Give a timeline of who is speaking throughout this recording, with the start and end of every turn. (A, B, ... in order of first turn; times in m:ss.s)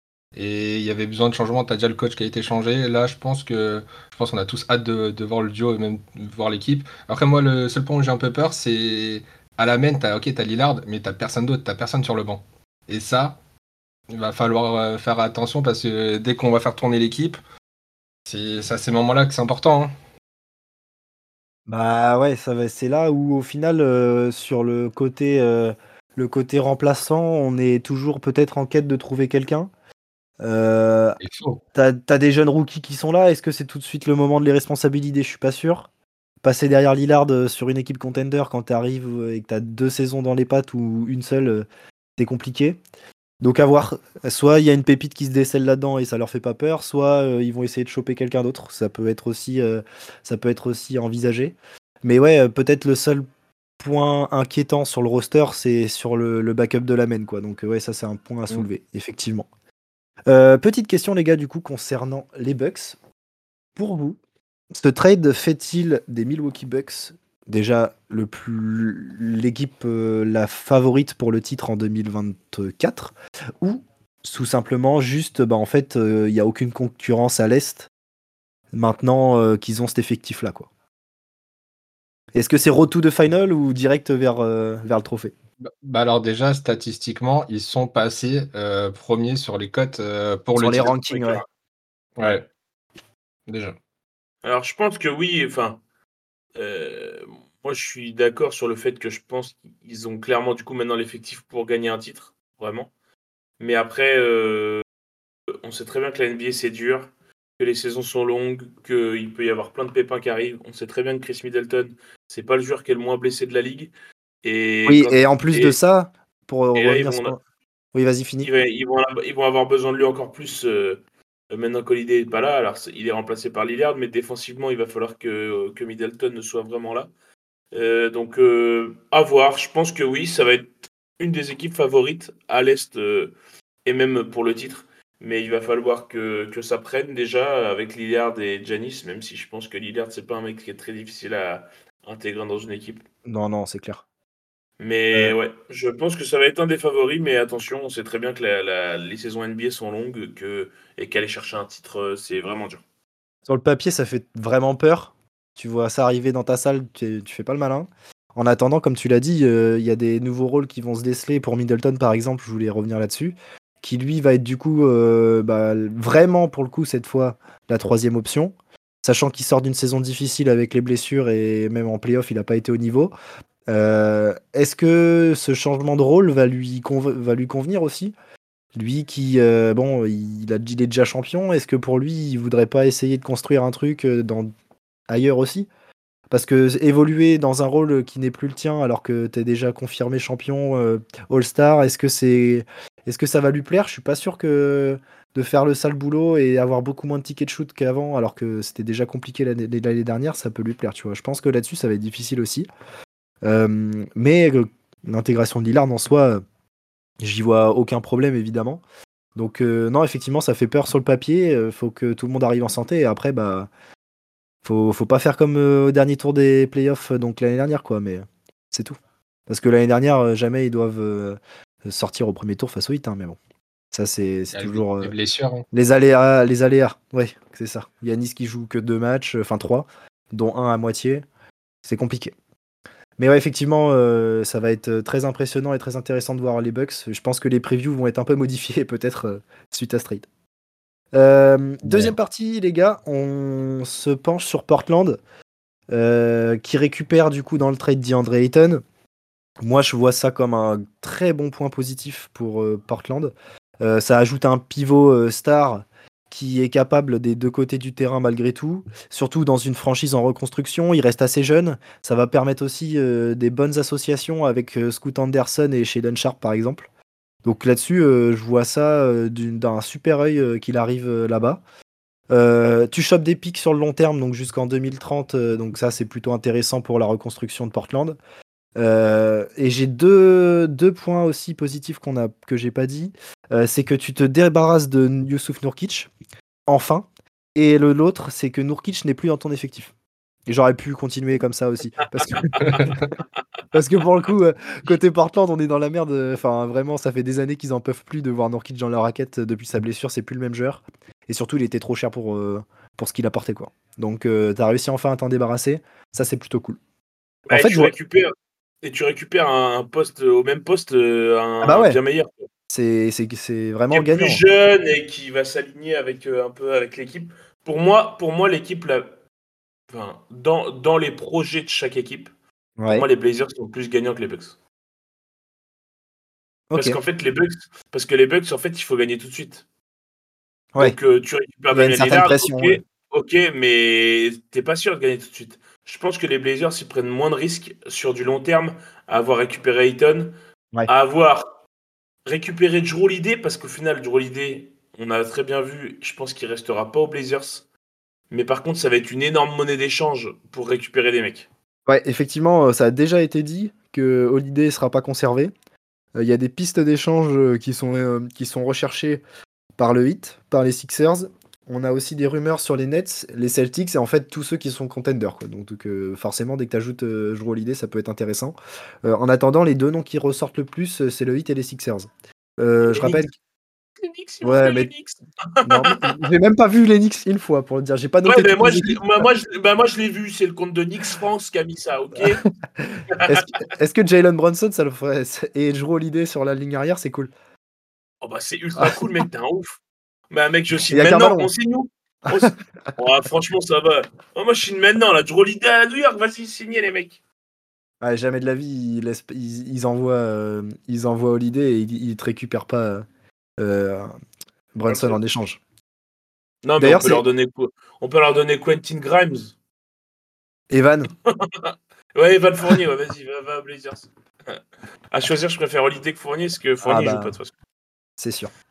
0:00.3-0:13.4 A
0:14.1-0:17.4 A
0:18.2-0:19.9 A
0:21.7-0:29.7 B
0:30.4-0:31.2 B
0:31.2-0:31.6 A
0:31.8-0:35.9 B
0:36.4-0:41.6 B
0:42.2-0:42.8 B
0:43.4-0:53.2 B
0:53.8-0:59.5 B
1:00.3-1:03.0 B
1:03.8-1:04.2 B
1:04.7-1:17.9 B
1:18.7-1:20.7 B
1:22.3-1:25.3 B
1:25.6-1:31.4 A
1:30.5-1:31.4 B
1:32.2-1:32.5 A
1:33.5-1:33.8 A
1:34.4-1:35.8 C
1:36.6-1:42.9 C
1:43.6-1:44.8 C
1:45.6-1:53.9 C
1:54.4-1:55.8 C
1:54.9-1:57.4 B
1:56.7-1:57.3 C
1:57.9-1:58.5 B
1:58.4-2:07.1 C
2:07.7-2:13.3 C
2:13.8-2:23.0 C
2:23.2-2:24.0 B
2:24.8-2:32.8 C
2:33.5-2:53.1 B
2:53.7-2:58.1 B
2:58.7-3:04.5 B
3:05.1-3:05.7 B
3:06.3-3:22.6 B
3:23.4-3:26.4 B
3:27.2-3:28.8 B
3:29.4-3:33.7 B
3:34.6-3:39.0 B
3:39.5-3:43.4 B
3:43.9-3:45.1 B
3:44.5-3:45.6 A
3:45.7-3:51.2 B
3:51.8-3:52.3 B
3:53.2-4:00.3 B
4:01.1-4:05.2 B
4:01.8-4:02.1 A
4:05.9-4:08.8 B
4:09.6-4:26.9 B
4:27.4-4:31.6 B
4:32.3-4:38.2 B
4:38.8-4:46.1 B
4:46.7-4:49.9 B
4:50.5-4:52.9 B
4:52.2-4:52.8 C
4:52.6-4:53.1 A
4:53.7-5:06.8 B
5:07.5-5:12.3 C
5:07.5-5:07.9 B
5:11.6-5:12.0 B
5:12.7-5:14.4 B
5:13.9-5:19.2 C
5:19.9-5:22.3 C
5:22.8-5:23.0 B
5:22.9-5:24.6 C
5:26.7-5:27.0 B
5:26.8-5:29.6 C
5:30.8-5:40.3 C
5:31.7-5:32.8 B
5:40.9-5:41.4 C
5:42.2-5:47.6 C
5:48.3-5:51.5 C
5:51.9-5:55.5 B
5:56.1-5:59.2 B
5:59.8-6:12.1 B
6:12.6-6:13.3 B
6:12.8-6:13.3 C
6:14.0-6:16.2 C
6:14.4-6:14.9 B
6:15.6-6:19.2 B
6:18.2-6:22.4 C
6:22.8-6:27.3 B
6:23.2-6:23.4 C
6:28.2-6:37.2 C
6:30.9-6:31.5 B
6:38.0-6:43.0 B
6:43.6-6:44.1 B
6:44.7-6:45.6 B
6:44.9-6:45.2 C
6:46.6-6:49.5 C
6:46.8-6:47.2 B
6:50.7-6:51.1 B
6:51.2-6:54.6 C
6:55.1-6:57.5 C
6:56.8-6:57.4 B
6:58.2-6:58.5 B